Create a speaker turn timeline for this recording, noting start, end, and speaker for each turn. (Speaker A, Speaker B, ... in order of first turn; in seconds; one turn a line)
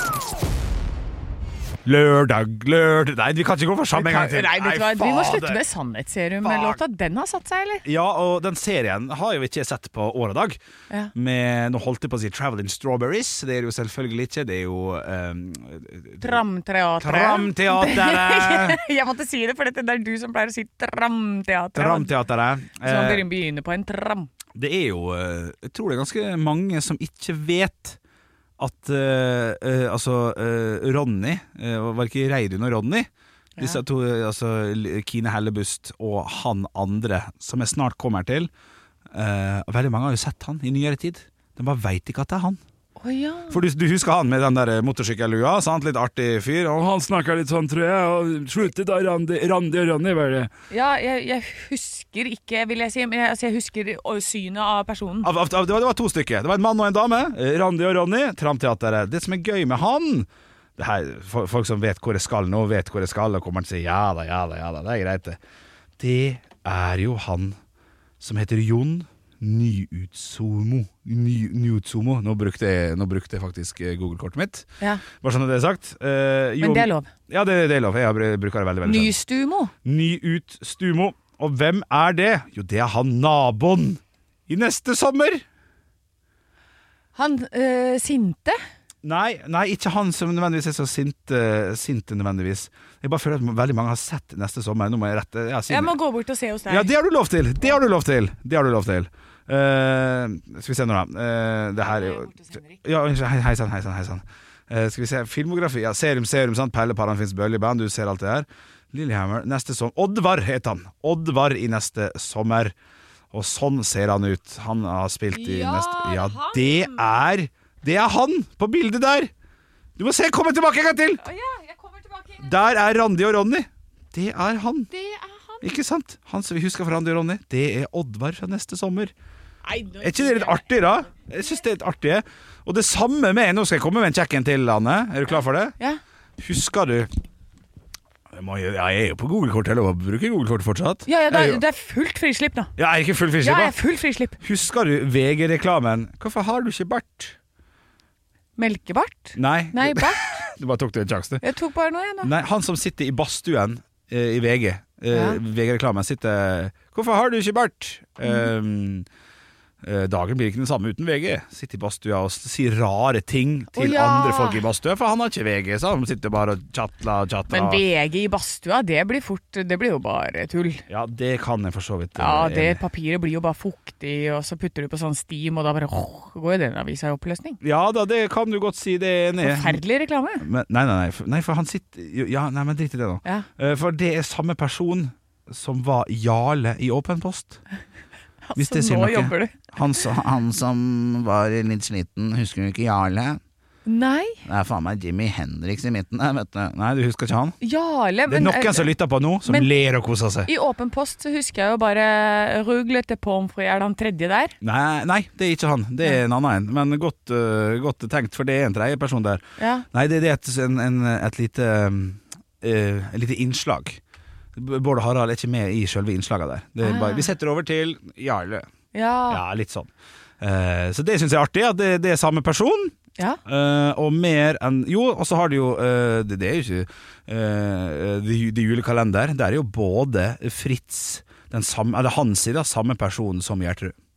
Speaker A: 1.9-5.6
Speaker B: 3.9-7.8
Speaker A: 6.4-6.8
Speaker A: 7.8-10.6
Speaker A: 11.1-16.4
Speaker B: 16.2-22.1
Speaker A: 17.0-18.8
Speaker A: 21.8-23.2
Speaker B: 22.8-24.3
Speaker A: 24.6-28.0
Speaker A: 28.6-38.5
Speaker A: 39.1-42.6
Speaker B: 43.0-43.6
Speaker A: 43.5-50.5
Speaker B: 50.7-55.3
Speaker A: 55.2-65.4
Speaker A: 66.0-67.6
Speaker A: 68.2-79.2
Speaker B: 76.6-77.1
Speaker B: 78.8-79.7
Speaker A: 79.8-85.4
Speaker B: 87.2-88.6
Speaker A: 89.0-96.0
Speaker B: 95.7-96.9
Speaker A: 96.7-112.8
Speaker B: 102.3-102.6
Speaker A: 113.3-119.3
Speaker B: 115.3-117.1
Speaker A: 120.0-121.2
Speaker B: 121.2-122.5
Speaker A: 122.4-124.9
Speaker B: 124.9-125.7
Speaker A: 125.6-129.1
Speaker B: 129.7-130.7
Speaker A: 130.0-135.8
Speaker A: 136.4-137.1
Speaker A: 138.3-141.6
Speaker B: 141.1-142.7
Speaker A: 142.8-143.7
Speaker B: 143.4-144.4
Speaker A: 144.4-147.4
Speaker B: 148.6-150.4
Speaker A: 149.3-151.4
Speaker B: 151.4-152.3
Speaker A: 152.2-159.1
Speaker B: 155.1-155.4
Speaker A: 159.8-167.8
Speaker B: 163.8-164.6
Speaker B: 167.5-170.8
Speaker A: 170.9-172.8
Speaker B: 172.2-177.6
Speaker A: 177.6-179.8
Speaker B: 179.4-180.4
Speaker A: 180.4-187.6
Speaker B: 188.5-189.6
Speaker A: 188.6-193.4
Speaker B: 193.8-194.4
Speaker A: 194.4-197.6
Speaker B: 197.6-198.9
Speaker A: 198.3-200.5
Speaker B: 200.5-204.6
Speaker A: 204.6-214.0
Speaker B: 209.6-209.8
Speaker A: 214.6-218.7
Speaker B: 216.8-217.3
Speaker B: 218.9-219.4
Speaker A: 219.3-222.9
Speaker A: 223.5-233.9